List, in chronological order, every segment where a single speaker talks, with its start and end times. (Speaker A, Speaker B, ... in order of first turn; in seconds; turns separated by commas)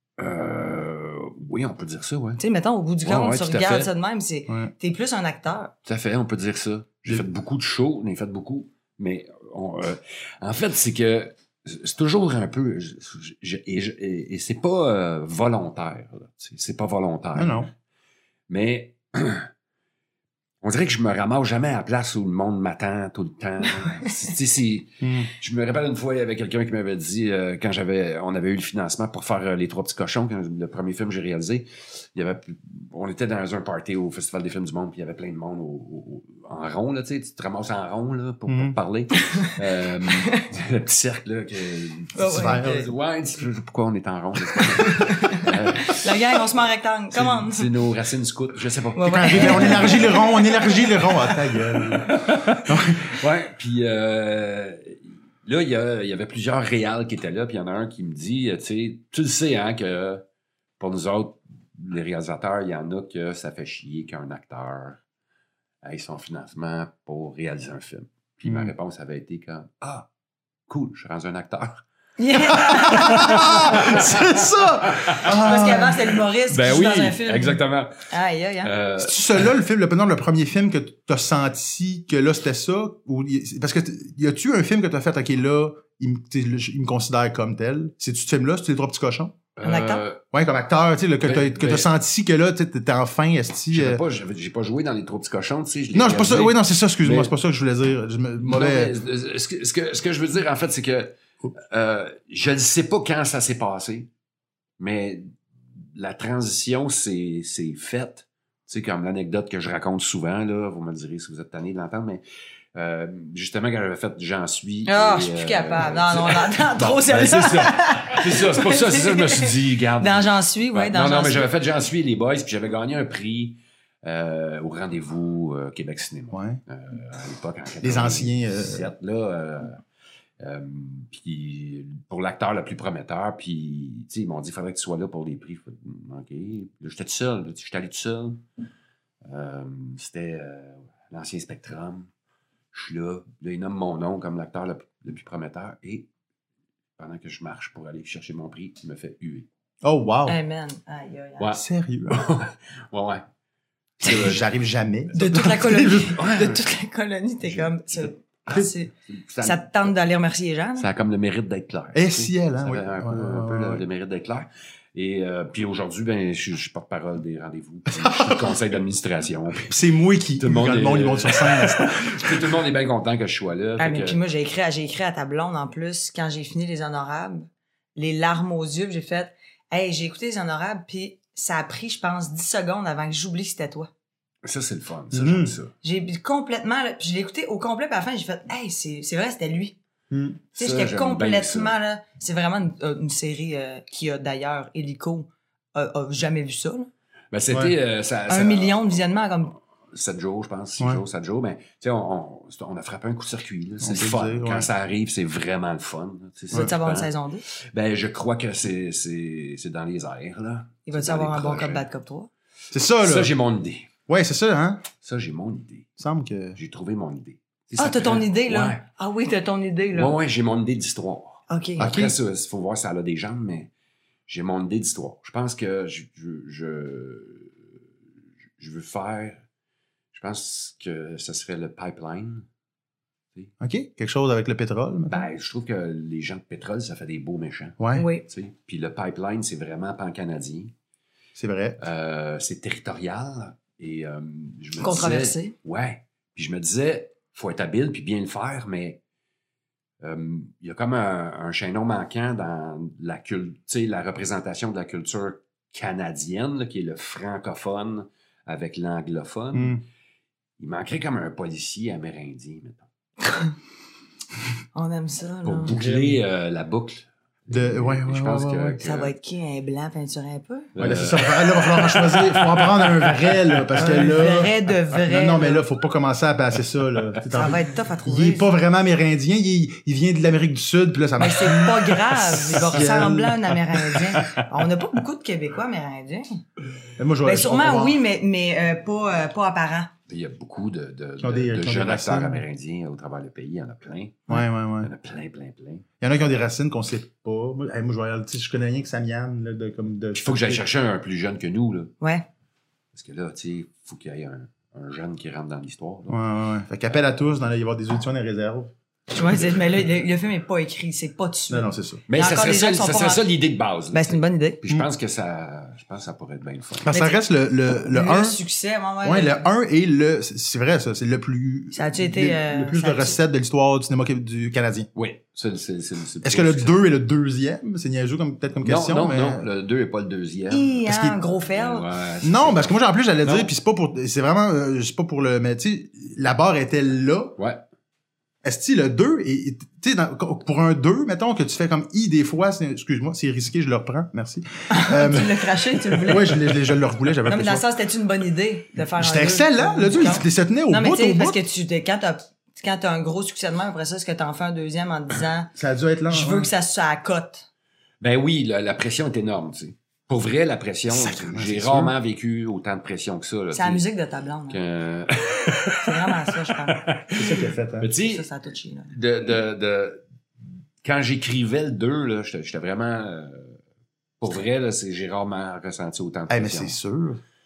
Speaker A: 0.2-2.4, Speaker B: 2.4-5.7, Speaker A: 3.0-3.9, Speaker A: 5.9-17.7, Speaker C: 17.4-17.7, Speaker A: 18.5-19.5, Speaker A: 20.6-46.4, Speaker C: 25.0-25.3, Speaker C: 38.5-38.8, Speaker B: 39.1-40.5, Speaker B: 42.1-42.9, Speaker C: 42.3-42.9, Speaker B: 44.6-47.7, Speaker A: 47.1-50.1, Speaker B: 49.0-51.2, Speaker C: 49.1-53.1, Speaker A: 51.8-60.2, Speaker A: 60.8-65.0, Speaker A: 65.8-70.1, Speaker C: 68.5-68.7, Speaker A: 70.7-71.8, Speaker B: 72.2-74.0, Speaker C: 72.5-76.2, Speaker A: 72.9-76.0, Speaker B: 75.4-78.7, Speaker A: 76.5-78.1, Speaker A: 78.6-79.5, Speaker C: 79.0-89.4, Speaker A: 89.6-90.2, Speaker B: 89.6-90.0, Speaker C: 90.3-94.0, Speaker A: 91.2-91.9, Speaker A: 93.7-97.3, Speaker C: 95.9-98.9, Speaker A: 98.4-104.1, Speaker A: 104.8-112.2, Speaker A: 112.8-129.8, Speaker B: 114.9-121.5, Speaker C: 126.3-126.6, Speaker C: 127.8-128.9, Speaker A: 130.4-138.4, Speaker A: 139.3-142.1, Speaker A: 142.7-146.1, Speaker A: 147.0-149.5, Speaker C: 149.8-150.4, Speaker B: 150.3-151.5, Speaker A: 151.4-153.2, Speaker C: 151.5-152.2, Speaker A: 154.0-154.4, Speaker C: 154.0-156.2, Speaker B: 155.1-160.9, Speaker A: 156.1-156.6, Speaker A: 157.4-159.9, Speaker A: 160.8-169.7, Speaker C: 161.9-163.8, Speaker C: 167.9-168.6, Speaker C: 169.7-172.5, Speaker A: 170.4-174.2, Speaker B: 173.8-183.9, Speaker A: 184.4-185.7, Speaker C: 185.1-185.6, Speaker B: 185.8-189.8, Speaker C: 190.1-190.4, Speaker A: 190.5-191.8, Speaker B: 190.6-196.9, Speaker A: 197.3-199.0, Speaker C: 197.5-197.8, Speaker B: 198.3-199.5, Speaker A: 199.9-207.1, Speaker C: 203.8-204.7, Speaker B: 206.5-207.4, Speaker A: 207.7-211.9, Speaker B: 210.9-212.3, Speaker C: 212.7-213.3, Speaker A: 213.0-213.9, Speaker C: 214.1-214.9, Speaker A: 215.0-215.9, Speaker C: 216.0-216.6, Speaker A: 216.6-218.8, Speaker B: 217.8-220.2, Speaker A: 219.9-223.7, Speaker B: 221.5-221.9, Speaker C: 221.8-222.2, Speaker A: 224.3-227.6, Speaker A: 228.6-229.4, Speaker A: 230.1-232.5, Speaker C: 233.6-235.3, Speaker A: 235.1-240.7, Speaker C: 237.8-238.1, Speaker B: 237.9-238.3, Speaker C: 241.4-241.8, Speaker A: 241.8-249.0, Speaker B: 244.8-245.5, Speaker A: 250.0-259.8, Speaker C: 259.5-259.8, Speaker A: 260.6-262.9, Speaker B: 263.3-263.5, Speaker B: 264.7-265.8, Speaker A: 265.4-269.1, Speaker C: 265.7-266.2, Speaker C: 267.5-268.8, Speaker B: 268.8-270.7, Speaker A: 270.8-273.9, Speaker C: 270.8-274.5, Speaker B: 273.8-275.6, Speaker C: 275.1-283.4, Speaker B: 277.3-278.5, Speaker B: 281.2-286.4, Speaker A: 282.5-282.9, Speaker C: 287.0-288.0, Speaker B: 287.2-289.9, Speaker A: 290.1-295.9, Speaker C: 291.2-292.4, Speaker C: 294.3-294.9, Speaker C: 296.0-300.6, Speaker A: 300.2-301.9, Speaker B: 302.0-302.3, Speaker A: 302.9-306.2, Speaker C: 306.1-308.7, Speaker B: 309.1-313.2, Speaker C: 311.5-312.0, Speaker A: 312.1-316.9, Speaker B: 313.9-314.6, Speaker C: 316.9-318.4, Speaker B: 316.9-319.4, Speaker C: 319.0-324.9, Speaker B: 321.7-323.2, Speaker A: 324.9-326.8, Speaker C: 326.2-329.5, Speaker A: 328.6-330.7, Speaker B: 330.5-331.9, Speaker C: 330.9-331.2, Speaker A: 331.5-333.5, Speaker C: 332.2-337.4, Speaker A: 337.4-337.6, Speaker C: 338.4-345.5, Speaker B: 344.7-346.5, Speaker C: 346.0-347.6, Speaker B: 347.3-355.5, Speaker C: 349.0-351.4, Speaker C: 355.6-356.5, Speaker B: 356.1-357.5, Speaker A: 358.0-363.8, Speaker C: 360.9-361.9, Speaker B: 363.5-364.6, Speaker A: 364.5-368.3, Speaker B: 365.8-366.8, Speaker C: 367.1-367.9, Speaker B: 368.0-368.9, Speaker A: 368.9-370.0, Speaker A: 370.8-373.6, Speaker A: 374.2-376.8, Speaker C: 376.3-377.2